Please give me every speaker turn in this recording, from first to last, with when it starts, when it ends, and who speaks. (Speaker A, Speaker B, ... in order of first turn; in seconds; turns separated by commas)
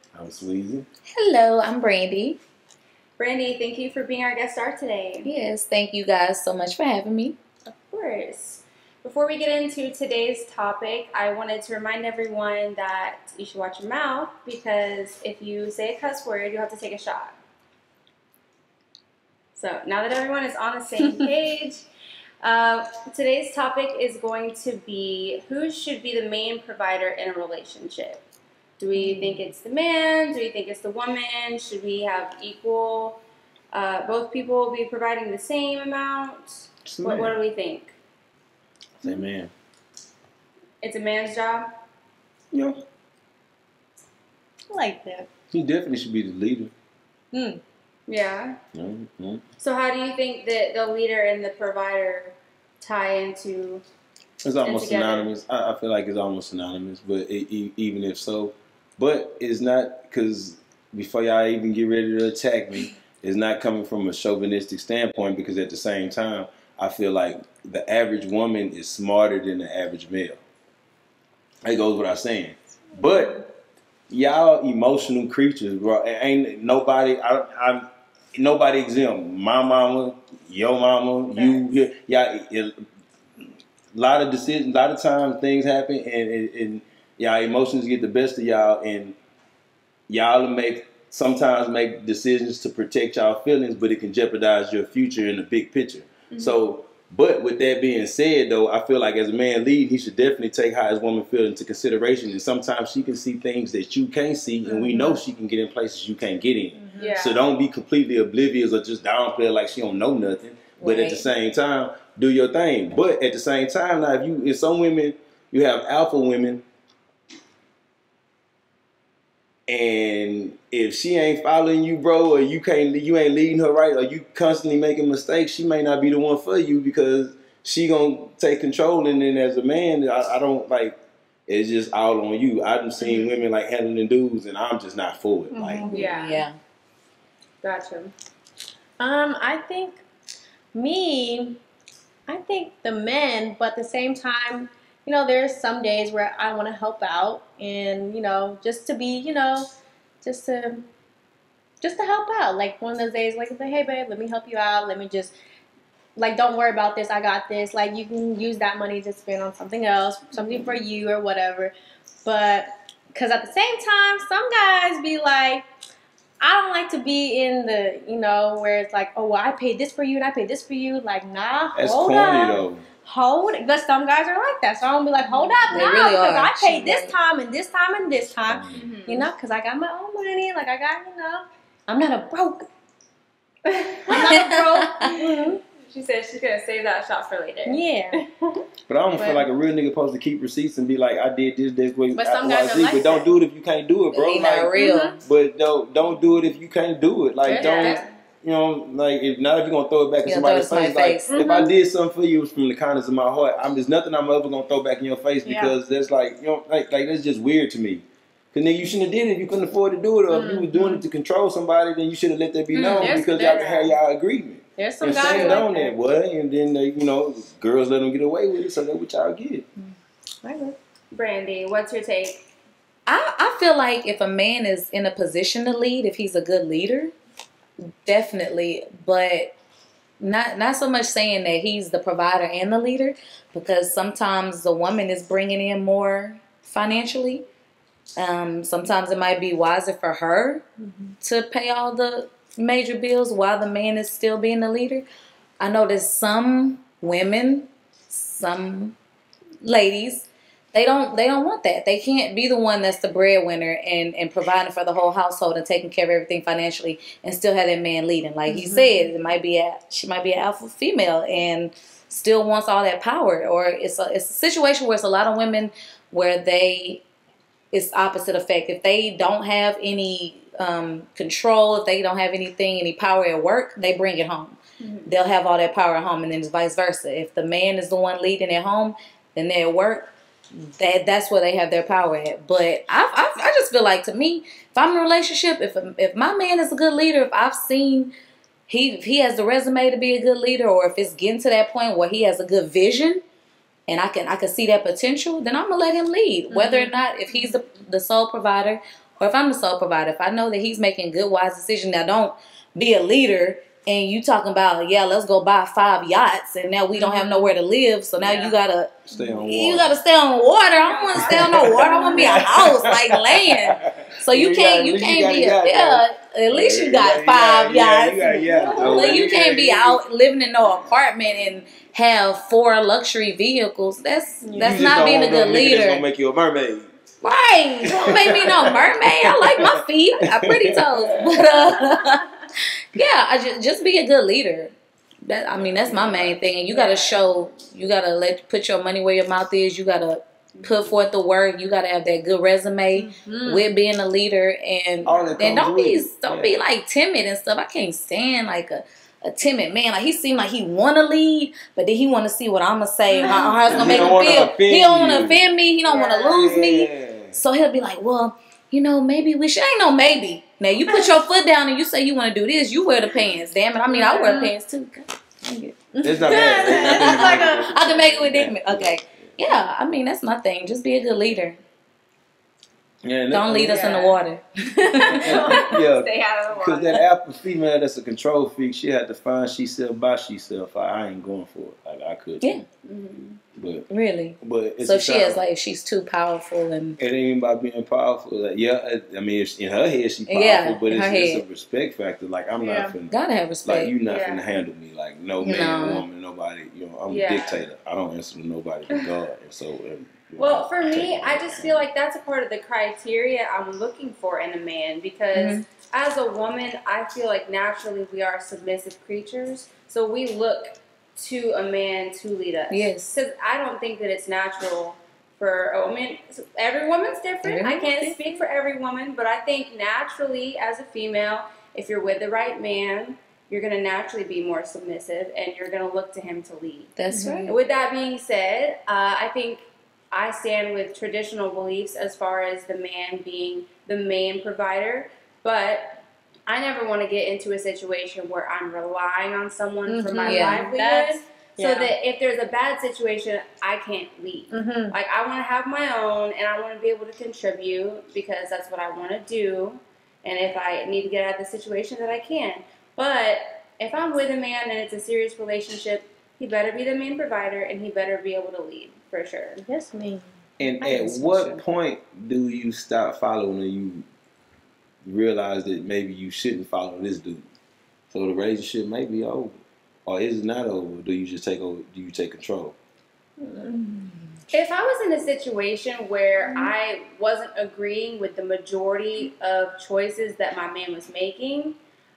Speaker A: 0.1-0.9, Speaker B: 1.1-2.4, Speaker C: 3.2-5.3, Speaker B: 5.2-7.4, Speaker C: 7.7-17.4, Speaker C: 19.6-21.9, Speaker C: 22.4-28.2, Speaker C: 28.8-33.2, Speaker C: 33.7-38.0, Speaker A: 36.9-37.4, Speaker A: 39.0-39.5, Speaker C: 40.8-41.7, Speaker A: 42.5-42.8, Speaker D: 44.7-45.3, Speaker A: 45.5-46.7, Speaker D: 47.3-47.6, Speaker C: 48.1-48.6, Speaker A: 48.7-49.4, Speaker C: 49.6-53.8, Speaker A: 54.4-70.4, Speaker C: 54.6-55.3, Speaker A: 71.6-73.4, Speaker A: 74.1-82.8, Speaker C: 81.3-81.7, Speaker A: 83.9-89.2, Speaker A: 90.1-116.6, Speaker C: 96.3-96.6, Speaker D: 104.7-105.2, Speaker D: 106.8-107.1, Speaker C: 107.0-107.5, Speaker B: 110.8-111.3, Speaker A: 119.7-135.9, Speaker C: 133.0-133.3, Speaker D: 135.5-136.1, Speaker C: 135.9-136.5, Speaker B: 135.9-136.6, Speaker C: 137.6-138.1, Speaker D: 139.0-140.0, Speaker D: 140.7-141.6, Speaker D: 142.3-149.7, Speaker D: 150.2-150.8, Speaker D: 151.8-155.3, Speaker D: 156.2-165.7, Speaker C: 160.3-160.8, Speaker D: 166.4-182.7, Speaker A: 171.8-172.8, Speaker C: 175.2-175.8, Speaker B: 175.7-177.1, Speaker A: 178.3-178.8, Speaker C: 178.7-179.3, Speaker C: 183.7-188.6, Speaker D: 184.1-185.6, Speaker B: 184.2-185.1, Speaker D: 187.7-188.2, Speaker A: 188.9-219.7, Speaker D: 189.1-189.5, Speaker D: 192.2-193.3, Speaker B: 194.1-195.2, Speaker D: 194.7-195.2, Speaker D: 197.5-198.1, Speaker C: 197.5-198.1, Speaker B: 200.2-201.3, Speaker C: 201.3-201.7, Speaker D: 205.4-205.8, Speaker D: 210.3-211.0, Speaker B: 212.7-213.2, Speaker D: 212.9-213.9, Speaker C: 213.5-213.9, Speaker D: 214.8-215.9, Speaker C: 215.1-215.6, Speaker D: 220.4-220.8, Speaker C: 221.1-222.5, Speaker B: 223.1-227.1, Speaker B: 227.8-229.5, Speaker B: 230.2-237.4, Speaker B: 238.2-240.6, Speaker D: 240.9-241.1, Speaker B: 241.2-245.1, Speaker B: 245.6-248.9, Speaker B: 249.6-267.0, Speaker D: 258.5-259.1, Speaker B: 267.7-288.1, Speaker C: 274.8-275.1, Speaker B: 288.7-293.2, Speaker B: 293.9-326.1, Speaker C: 296.5-297.8, Speaker C: 306.9-307.5, Speaker D: 308.2-308.6, Speaker A: 309.1-310.0, Speaker D: 311.1-312.5, Speaker A: 311.1-320.0, Speaker D: 318.3-319.2, Speaker D: 324.4-325.1, Speaker A: 324.6-326.9, Speaker B: 327.2-332.3, Speaker A: 327.8-331.4, Speaker C: 331.9-332.2, Speaker B: 332.9-334.7, Speaker B: 335.2-365.8, Speaker A: 335.5-336.4, Speaker C: 336.7-337.2, Speaker C: 340.5-341.0, Speaker D: 342.9-343.7, Speaker A: 345.0-346.6, Speaker C: 345.1-345.4, Speaker D: 353.1-354.2, Speaker A: 353.7-355.5, Speaker A: 356.3-357.4, Speaker D: 360.9-361.1, Speaker C: 363.9-364.4, Speaker D: 364.2-364.6, Speaker D: 365.9-367.7, Speaker A: 366.0-369.1, Speaker B: 366.3-371.6, Speaker A: 373.0-374.2, Speaker B: 373.3-375.5, Speaker C: 373.6-374.2, Speaker C: 375.0-377.0, Speaker A: 375.1-382.6, Speaker C: 382.9-383.4, Speaker A: 383.6-383.9, Speaker B: 383.9-387.0, Speaker A: 384.4-385.4, Speaker A: 387.0-401.9, Speaker B: 390.3-391.4, Speaker D: 392.6-393.0, Speaker B: 393.1-393.9, Speaker C: 394.1-394.6, Speaker B: 395.4-396.1, Speaker C: 397.1-397.6, Speaker C: 400.4-426.9, Speaker B: 405.3-405.6, Speaker B: 412.7-413.2, Speaker B: 417.4-417.9, Speaker D: 417.9-418.2, Speaker B: 427.0-427.6, Speaker D: 427.1-427.5, Speaker C: 427.5-459.6, Speaker D: 439.9-442.0, Speaker B: 440.1-440.7, Speaker D: 444.5-445.0, Speaker D: 459.7-460.2, Speaker A: 460.6-464.1, Speaker B: 460.8-461.6, Speaker A: 465.0-467.4, Speaker A: 468.1-472.8, Speaker D: 473.4-474.2, Speaker C: 474.5-481.8